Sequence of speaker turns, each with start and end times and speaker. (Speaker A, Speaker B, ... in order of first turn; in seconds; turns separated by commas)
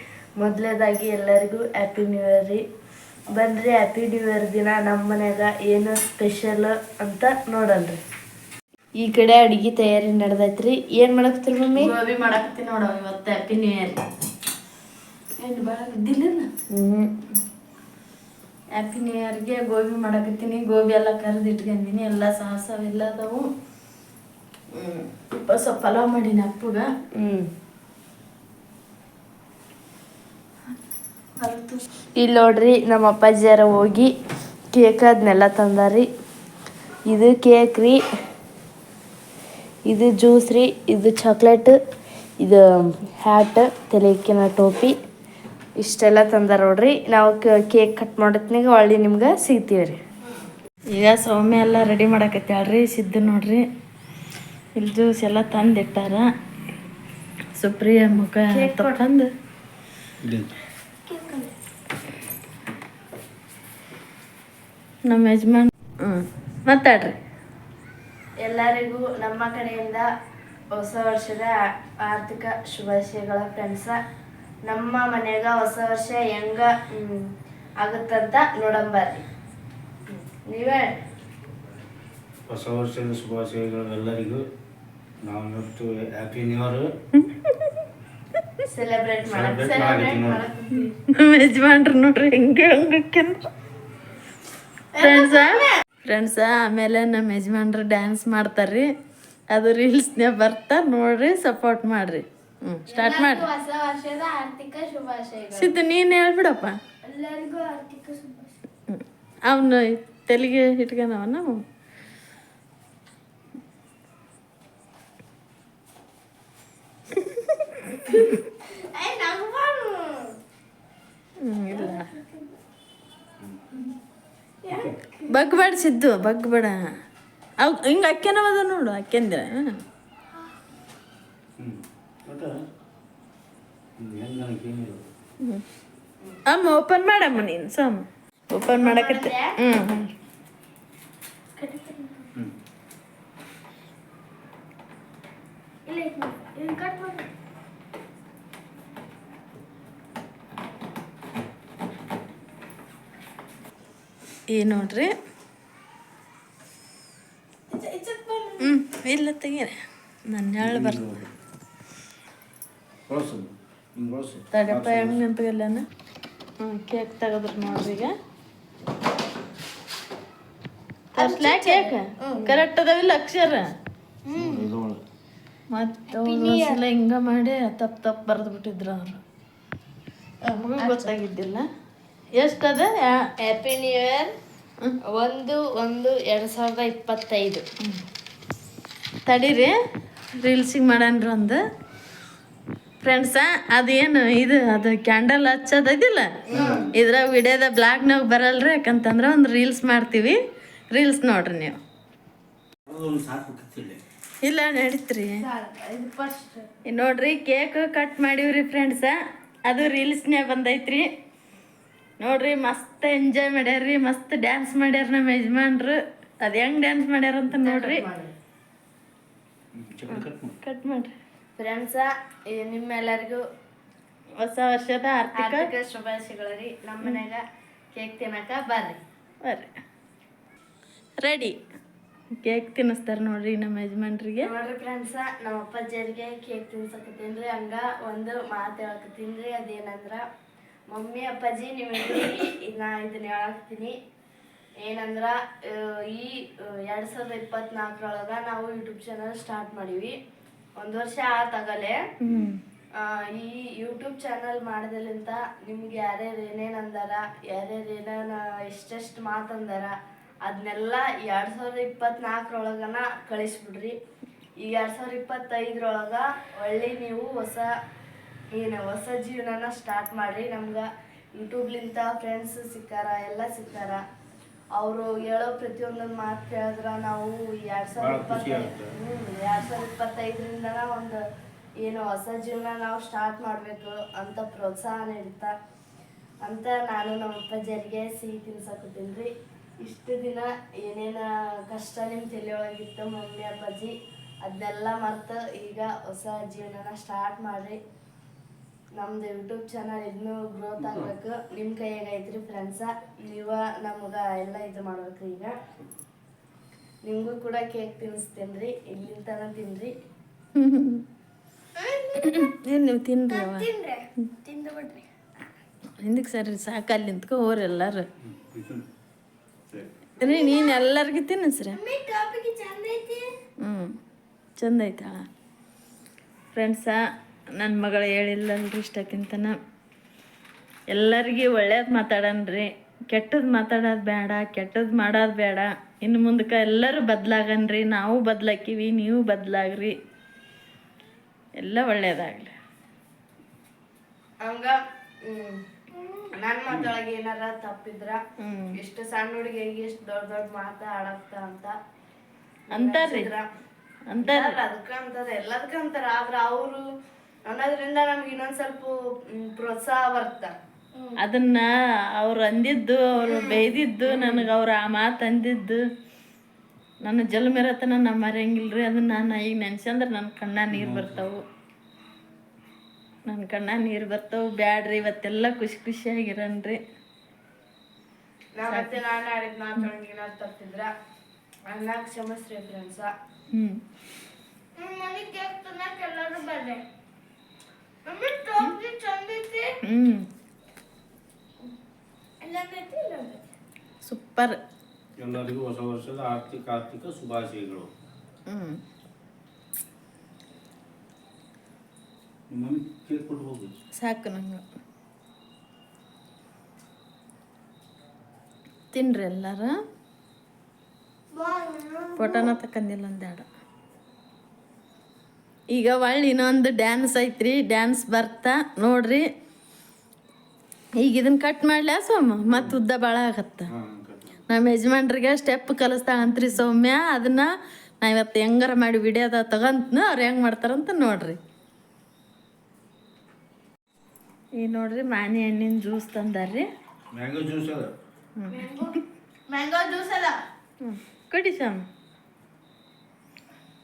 Speaker A: 0.4-2.6, Speaker A: 3.3-8.0, Speaker A: 9.0-11.9, Speaker B: 11.8-14.1, Speaker B: 15.4-16.5, Speaker A: 16.7-17.2, Speaker B: 18.7-23.5, Speaker B: 24.7-26.9, Speaker A: 27.1-27.5, Speaker B: 31.4-31.8, Speaker A: 32.2-34.1, Speaker A: 34.7-36.1, Speaker A: 37.1-38.0, Speaker A: 39.9-41.8, Speaker A: 42.4-45.0, Speaker A: 45.8-50.0, Speaker B: 50.9-53.6, Speaker B: 54.8-56.3, Speaker B: 57.6-59.3, Speaker A: 58.0-59.0, Speaker C: 60.2-60.5, Speaker D: 61.1-61.5, Speaker B: 65.1-67.2, Speaker A: 68.4-70.1, Speaker A: 70.8-74.0, Speaker A: 74.7-79.2, Speaker A: 80.5-81.0, Speaker C: 82.5-84.4, Speaker C: 85.2-86.9, Speaker B: 87.2-87.8, Speaker A: 88.7-91.0, Speaker C: 89.3-90.5, Speaker B: 91.1-93.5, Speaker A: 95.0-95.6, Speaker B: 95.0-98.9, Speaker B: 99.5-103.5, Speaker A: 102.9-105.7, Speaker D: 103.1-103.5, Speaker D: 104.4-104.6, Speaker B: 105.5-106.8, Speaker D: 107.1-108.5, Speaker B: 108.9-111.6, Speaker B: 117.1-117.8, Speaker D: 118.9-120.3, Speaker B: 121.4-122.1, Speaker C: 124.7-125.0, Speaker D: 124.8-125.2, Speaker B: 125.3-126.8, Speaker B: 127.6-129.8, Speaker C: 131.6-132.6, Speaker C: 134.0-135.0, Speaker B: 136.5-140.1, Speaker A: 138.7-139.6, Speaker D: 141.6-142.2, Speaker D: 145.9-147.3, Speaker B: 154.5-155.1, Speaker A: 157.7-158.5, Speaker B: 158.6-159.8, Speaker B: 160.3-161.1, Speaker C: 160.6-161.3, Speaker C: 163.1-165.2, Speaker B: 164.5-165.9, Speaker B: 166.6-168.1, Speaker B: 171.2-173.7, Speaker A: 171.2-172.6, Speaker C: 174.3-175.0, Speaker D: 174.4-174.7, Speaker B: 175.7-179.2, Speaker D: 176.2-176.7, Speaker A: 176.3-176.7, Speaker A: 180.4-181.1, Speaker B: 180.6-181.7, Speaker B: 182.4-183.2, Speaker A: 183.4-184.3, Speaker A: 185.1-187.7, Speaker B: 189.2-189.8, Speaker B: 190.4-191.6, Speaker B: 193.0-200.4, Speaker A: 196.5-196.9, Speaker C: 196.5-196.9, Speaker B: 200.9-201.8, Speaker C: 202.9-204.0, Speaker B: 204.4-205.4, Speaker A: 205.4-206.6, Speaker B: 206.8-209.2, Speaker B: 209.7-211.1, Speaker B: 212.2-218.0, Speaker A: 217.5-218.3, Speaker C: 219.7-220.6, Speaker B: 220.6-221.1, Speaker A: 221.6-223.4, Speaker B: 224.4-225.7, Speaker A: 225.3-227.4, Speaker A: 227.9-229.0, Speaker B: 229.4-229.7, Speaker B: 231.2-231.6, Speaker B: 232.4-234.5, Speaker A: 234.4-240.2, Speaker A: 240.9-243.9, Speaker A: 244.8-250.2, Speaker A: 250.8-252.0, Speaker B: 252.2-252.6, Speaker C: 252.2-252.5, Speaker A: 253.0-264.0, Speaker A: 264.6-267.7, Speaker A: 268.5-274.0, Speaker A: 274.8-281.2, Speaker C: 278.0-278.9, Speaker A: 281.8-285.5, Speaker A: 286.4-297.8, Speaker A: 299.0-305.5, Speaker C: 300.8-301.1, Speaker A: 307.0-309.9, Speaker B: 310.6-311.0, Speaker D: 311.8-312.5, Speaker B: 312.2-313.7, Speaker D: 313.3-315.0, Speaker B: 316.0-318.1, Speaker C: 318.2-318.9, Speaker D: 320.2-320.7, Speaker B: 320.2-321.8, Speaker D: 321.8-323.2, Speaker B: 323.6-323.9, Speaker B: 324.6-325.3, Speaker B: 326.5-327.0, Speaker B: 327.5-329.6, Speaker B: 330.9-339.9, Speaker B: 341.6-342.5, Speaker A: 344.4-348.2, Speaker B: 348.4-348.7, Speaker A: 348.7-351.8, Speaker A: 352.7-353.5, Speaker B: 352.7-353.3, Speaker B: 354.1-354.5, Speaker A: 354.2-356.8, Speaker A: 357.4-361.1, Speaker B: 361.2-365.8, Speaker A: 363.2-364.5, Speaker B: 367.0-371.4, Speaker C: 370.7-371.3, Speaker B: 373.3-376.8, Speaker A: 378.6-380.9, Speaker B: 378.7-379.0, Speaker A: 381.7-383.1, Speaker B: 383.5-383.8, Speaker D: 384.8-386.8, Speaker A: 385.5-386.0, Speaker A: 388.1-389.7, Speaker B: 389.8-390.3, Speaker D: 392.4-393.4, Speaker B: 394.0-394.6, Speaker C: 395.2-397.9, Speaker B: 398.5-398.8, Speaker C: 402.5-403.8, Speaker B: 404.0-404.6, Speaker B: 408.9-409.8, Speaker D: 411.4-412.5, Speaker B: 412.2-413.5, Speaker B: 415.7-419.2, Speaker B: 421.0-423.7, Speaker C: 422.5-422.8, Speaker C: 423.7-424.4, Speaker B: 424.5-427.5, Speaker B: 428.0-431.4, Speaker B: 434.6-436.7, Speaker C: 437.1-437.9, Speaker B: 438.4-438.7, Speaker A: 438.5-439.0, Speaker A: 439.5-440.4, Speaker B: 440.8-441.9